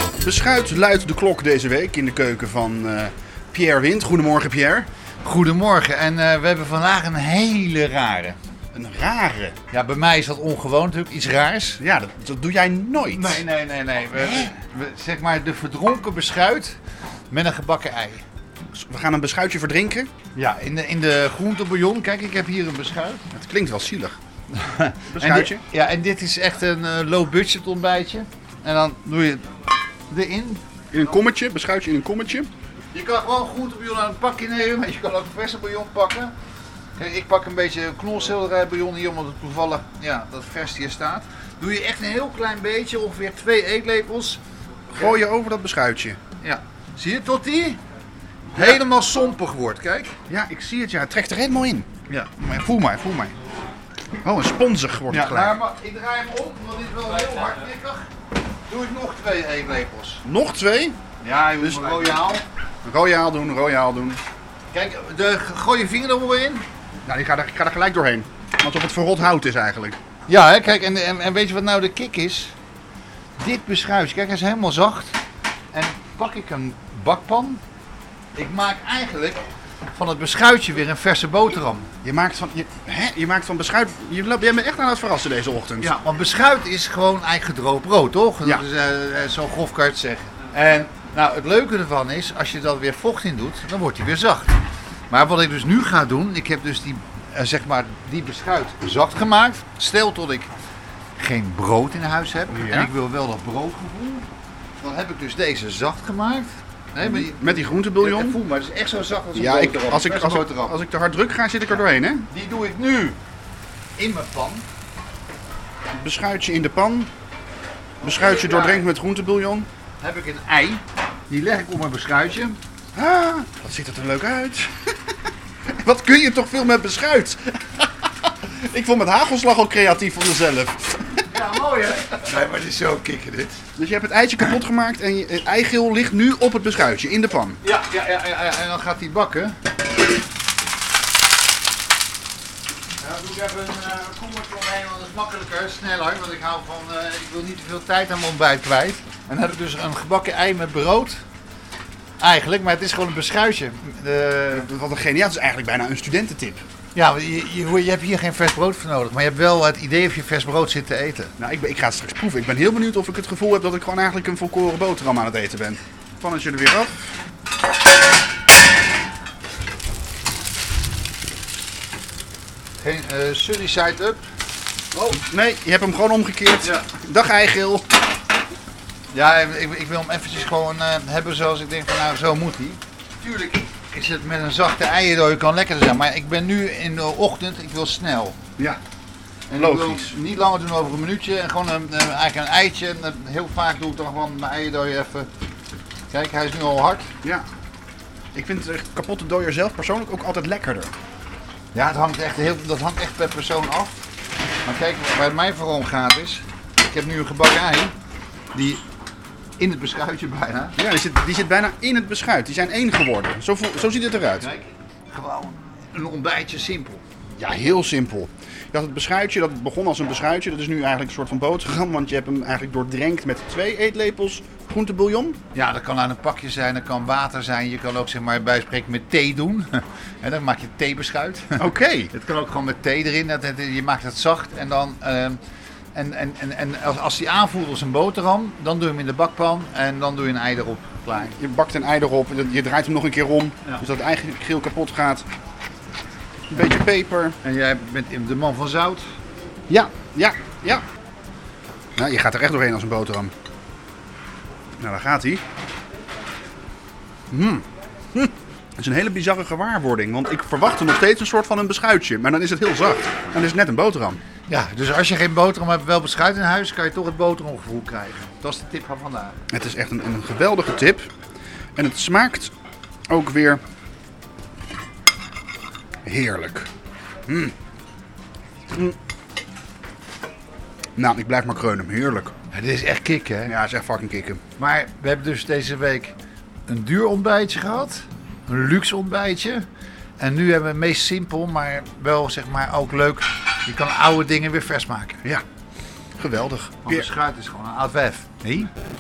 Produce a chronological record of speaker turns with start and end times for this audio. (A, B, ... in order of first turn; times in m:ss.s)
0:00.2-0:04.9 A
0:05.2-0:08.4 B
0:08.7-0:09.6 A
0:09.7-0:11.8 B
0:11.8-0:13.4 A
0:13.1-0:16.8 B
0:17.3-0:18.2 B
0:18.7-0:20.1 A
0:20.4-0:23.2 B
0:23.3-0:24.2 A
0:24.5-0:29.5 B
0:25.1-0:25.6 A
0:30.1-0:30.6 B
0:30.9-0:32.5 A
0:32.9-0:36.3 B
0:37.0-0:44.4 B
0:45.0-0:46.2 A
0:46.4-0:47.8 B
0:48.5-0:50.2 B
0:50.3-0:53.3 A
0:54.2-0:55.6 A
0:55.1-0:58.1 B
0:58.7-1:00.2 B
1:00.2-1:01.0 A
1:01.2-1:02.4 B
1:01.6-1:02.3 A
1:02.8-1:04.2 A
1:04.7-1:06.7 B
1:07.0-1:10.0 A
1:10.3-1:12.5 B
1:13.4-1:15.2 B
1:15.7-1:17.6 B
1:18.4-1:21.9 B
1:22.0-1:25.9 A
1:25.8-1:34.6 B
1:35.1-1:40.5 B
1:41.2-1:44.3 B
1:42.5-1:42.9 A
1:44.8-1:50.8 B
1:47.0-1:48.4 A
1:49.4-1:52.3 A
1:52.3-1:53.2 B
1:54.0-1:54.6 B
1:56.0-1:57.1 A
1:58.0-1:59.7 A
1:58.0-1:58.8 B
2:00.0-2:02.6 B
2:02.9-2:04.8 A
2:05.7-2:07.8 A
2:08.4-2:11.1 A
2:11.3-2:13.6 B
2:13.8-2:17.6 A
2:17.6-2:19.6 B
2:23.0-2:31.2 B
2:32.2-2:34.7 B
2:34.5-2:36.6 A
2:36.9-2:41.3 B
2:41.4-2:47.0 A
2:52.8-2:54.3 B
2:54.9-2:57.9 A
2:59.1-3:08.4 B
3:09.5-3:15.3 B
3:09.6-3:10.2 A
3:16.1-3:17.1 B
3:18.3-3:20.9 A
3:21.7-3:24.0 B
3:24.6-3:27.9 B
3:28.5-3:28.8 B
3:29.6-3:30.8 B
3:30.8-3:34.5 A
3:34.4-3:37.0 B
3:37.4-3:45.4 A
3:45.5-3:55.4 B
3:51.6-3:52.1 A
3:55.9-4:01.3 B
4:01.1-4:05.3 A
4:06.5-4:07.4 A
4:07.4-4:09.1 B
4:09.7-4:10.8 A
4:12.0-4:13.3 A
4:14.8-4:15.4 A
4:17.3-4:24.2 A
4:24.5-4:29.4 B
4:29.5-4:31.1 A
4:31.8-4:32.5 A
4:33.1-4:33.6 A
4:36.0-4:36.7 A
4:37.3-4:37.5 A
4:41.0-4:42.3 A
4:42.5-4:43.6 B
4:43.5-4:44.4 A
4:44.6-4:46.2 B
4:46.7-4:49.7 B
4:50.2-4:55.2 B
4:56.2-4:57.1 A
4:56.8-4:58.7 B